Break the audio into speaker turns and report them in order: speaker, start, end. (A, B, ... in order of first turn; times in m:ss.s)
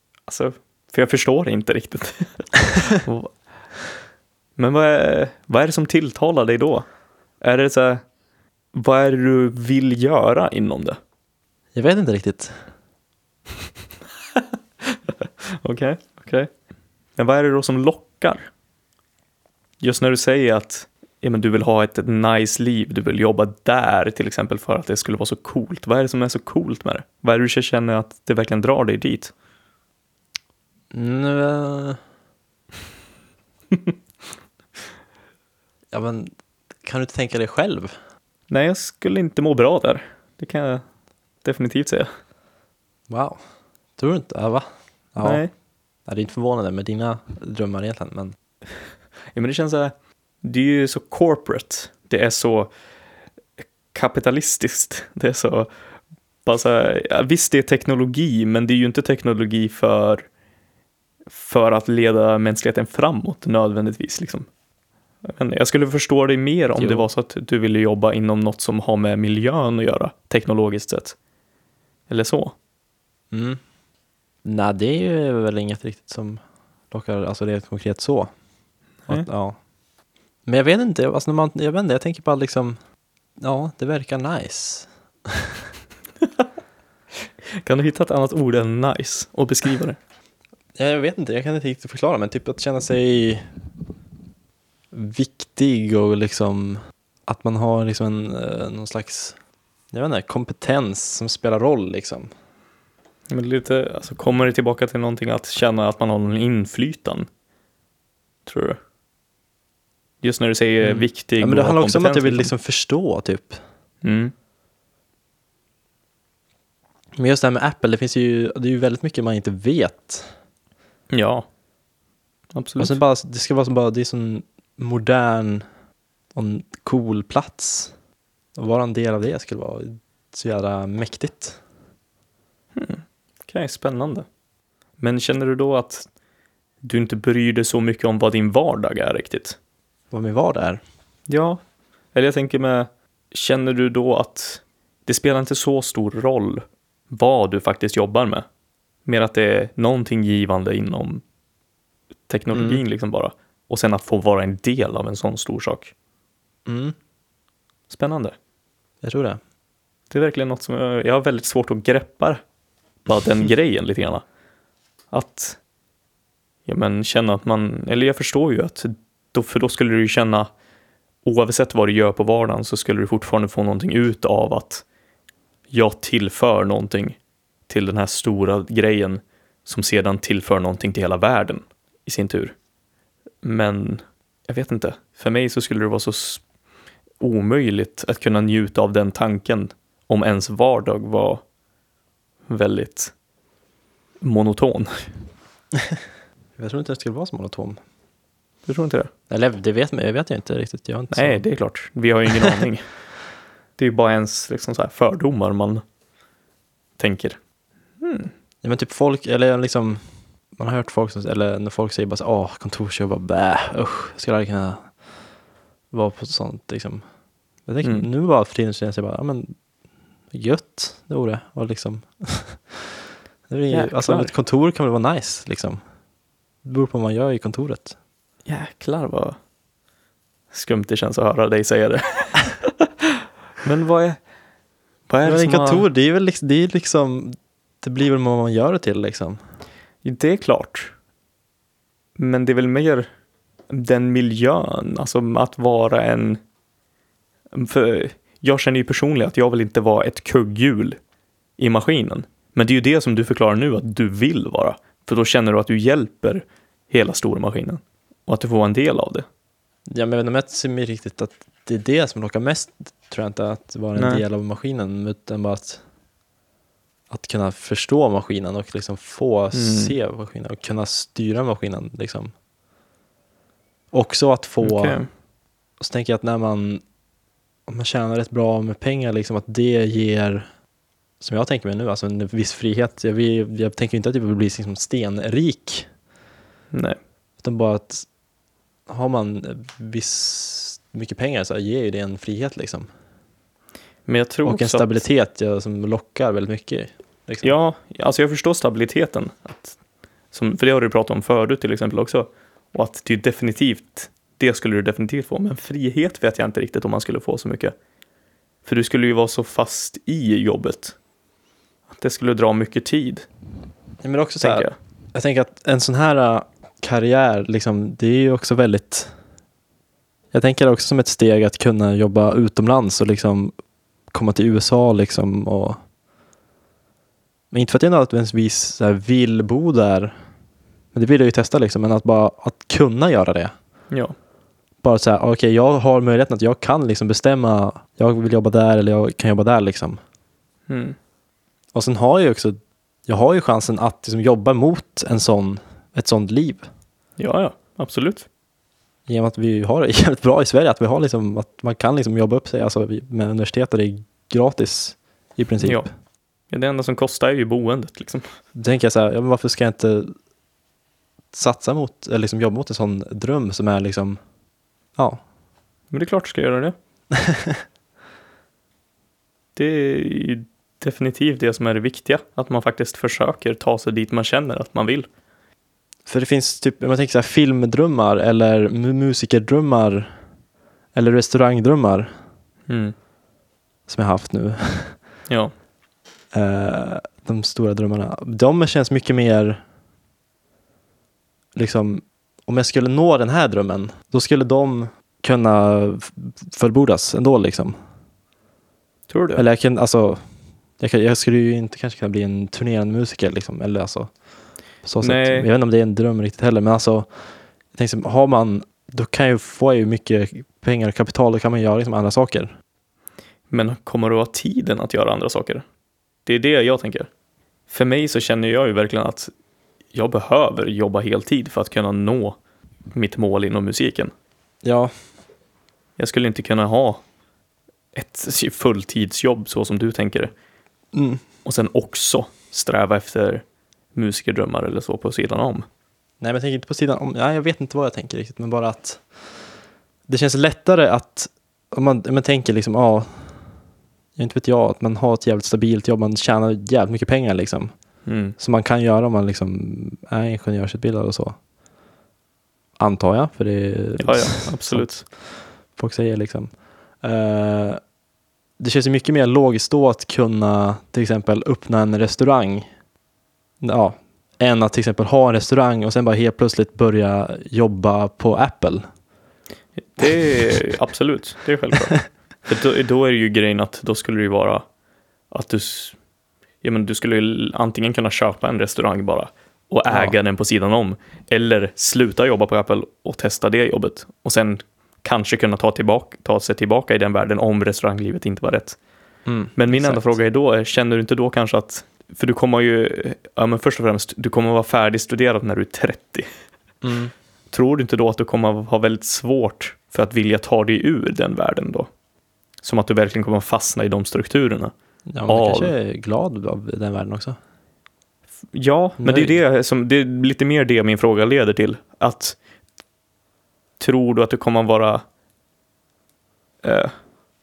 0:00.3-0:03.3 A
0:04.6-0:06.9 A
0:07.4-0:08.0 A
0:08.7-0:11.0 A
0:11.8-0:12.6 B
0:14.3-0:16.5 A
0:17.2-0:18.5 A
0:19.8-0:29.3 A
0:30.9-0:32.0 B
0:35.9-0:36.3 B
0:36.8-0:37.9 B
0:38.5-0:40.8 A
0:41.4-0:42.1 A
0:43.1-0:43.4 B
0:44.0-0:45.4 B
0:45.2-0:45.5 A
0:46.1-0:48.4 B
0:49.3-0:52.7 A
0:53.9-0:55.7 A
0:56.5-1:00.3 A
1:01.3-1:04.5 A
1:05.2-1:11.2 A
1:06.8-1:07.1 B
1:12.1-1:12.6 A
1:13.3-1:13.6 B
1:14.4-1:16.4 B
1:16.9-1:18.3 B
1:19.1-1:19.6 B
1:20.5-1:22.8 B
1:23.4-1:25.6 B
1:27.5-1:30.0 A
1:30.8-1:33.4 B
1:34.9-1:39.4 B
1:39.9-1:42.3 B
1:43.3-1:47.3 A
1:48.5-1:48.8 A
1:50.2-1:52.5 A
1:50.8-1:53.6 B
1:54.0-1:54.3 A
1:57.2-2:00.3 B
2:01.1-2:01.5 A
2:02.5-2:03.0 A
2:02.8-2:05.6 B
2:06.3-2:07.9 B
2:08.6-2:11.6 B
2:12.8-2:14.3 A
2:15.0-2:16.1 A
2:16.8-2:19.6 A
2:20.1-2:20.8 B
2:21.3-2:21.6 A
2:22.1-2:28.4 A
2:29.0-2:31.2 A
2:32.3-2:35.9 A
2:32.5-2:32.8 B
2:36.7-2:37.0 B
2:37.9-2:38.4 A
2:39.0-2:39.4 B
2:40.1-2:42.4 A
2:43.1-2:44.2 A
2:45.1-2:45.6 A
2:46.7-2:50.5 A
2:51.2-2:54.8 A
2:55.7-2:57.2 A
2:57.7-3:02.6 A
3:03.4-3:06.4 A
3:07.2-3:11.4 A
3:12.5-3:13.1 A
3:14.2-3:15.0 A
3:16.6-3:17.8 B
3:18.7-3:19.1 A
3:19.3-3:21.4 B
3:21.1-3:22.9 A
3:23.8-3:25.8 A
3:27.0-3:27.4 A
3:28.0-3:28.3 A
3:28.6-3:30.0 B
3:30.6-3:34.9 B
3:35.9-3:37.0 B
3:37.7-3:39.6 B
3:40.3-3:42.9 B
3:43.5-3:45.8 B
3:43.7-3:44.3 A
3:46.6-3:48.0 B
3:48.5-3:49.4 A
3:50.5-3:54.2 A
3:55.1-3:55.9 A
3:55.2-3:59.4 B
4:00.0-4:00.9 A
4:02.2-4:03.1 A
4:03.7-4:06.4 A
4:07.5-4:11.0 A
4:11.6-4:19.3 A
4:19.9-4:25.8 B
4:24.0-4:24.2 A
4:27.1-4:32.3 B
4:29.5-4:30.0 A
4:33.9-4:35.0 B
4:34.6-4:35.1 A
4:35.8-4:36.8 B
4:37.7-4:40.5 B
4:41.2-4:45.9 B
4:46.7-4:47.0 A
4:47.4-4:48.1 B
4:48.9-4:52.9 B
4:54.1-4:54.9 A
4:54.4-4:57.5 B
4:57.4-4:59.8 A
5:00.3-5:07.7 A
5:08.6-5:11.0 A
5:11.9-5:13.3 A
5:14.0-5:19.1 B
5:14.4-5:14.8 A
5:20.3-5:23.5 B
5:24.1-5:25.8 B
5:27.5-5:30.1 B
5:30.9-5:33.5 B
5:34.8-5:40.0 B
5:40.7-5:41.0 A
5:41.7-5:46.7 B
5:47.2-5:48.3 A
5:49.1-5:55.9 B
5:55.6-5:55.9 A
5:56.5-5:58.2 A
5:58.6-6:00.2 B
6:01.3-6:04.2 B
6:05.9-6:06.8 A
6:07.1-6:07.6 B
6:09.6-6:15.1 A
6:16.1-6:20.2 B
6:21.0-6:22.1 B
6:22.7-6:23.0 A
6:23.9-6:25.0 B
6:26.3-6:29.6 B
6:31.6-6:37.8 B
6:39.1-6:39.4 A
6:39.4-6:40.2 B
6:40.8-6:44.1 B
6:44.8-6:52.5 B
6:45.0-6:45.5 A
6:53.5-6:55.6 A
6:56.3-6:57.1 A
6:57.7-6:59.3 A
6:59.9-7:02.4 A
7:02.9-7:04.1 A
7:04.6-7:04.9 B
7:06.0-7:07.0 A
7:07.9-7:10.3 A
7:10.9-7:11.2 B
7:11.4-7:13.4 A
7:14.0-7:15.7 A
7:16.2-7:19.0 B
7:20.1-7:23.5 B
7:24.2-7:27.7 B
7:28.1-7:28.4 A
7:28.4-7:31.4 B
7:32.8-7:35.2 B
7:34.0-7:35.0 A
7:35.8-7:36.5 B
7:37.0-7:37.8 B
7:38.6-7:42.7 B
7:43.6-7:48.9 B
7:49.8-7:54.6 A
7:55.3-7:56.0 A
7:56.6-8:08.8 A
7:59.9-8:00.2 B
8:09.3-8:10.2 B
8:09.6-8:16.3 A
8:16.8-8:17.1 B
8:17.5-8:21.9 A
8:22.6-8:24.7 A
8:25.1-8:27.4 B
8:25.3-8:25.7 A
8:28.5-8:32.4 A
8:29.0-8:29.4 B
8:33.8-8:35.0 A
8:36.6-8:36.9 A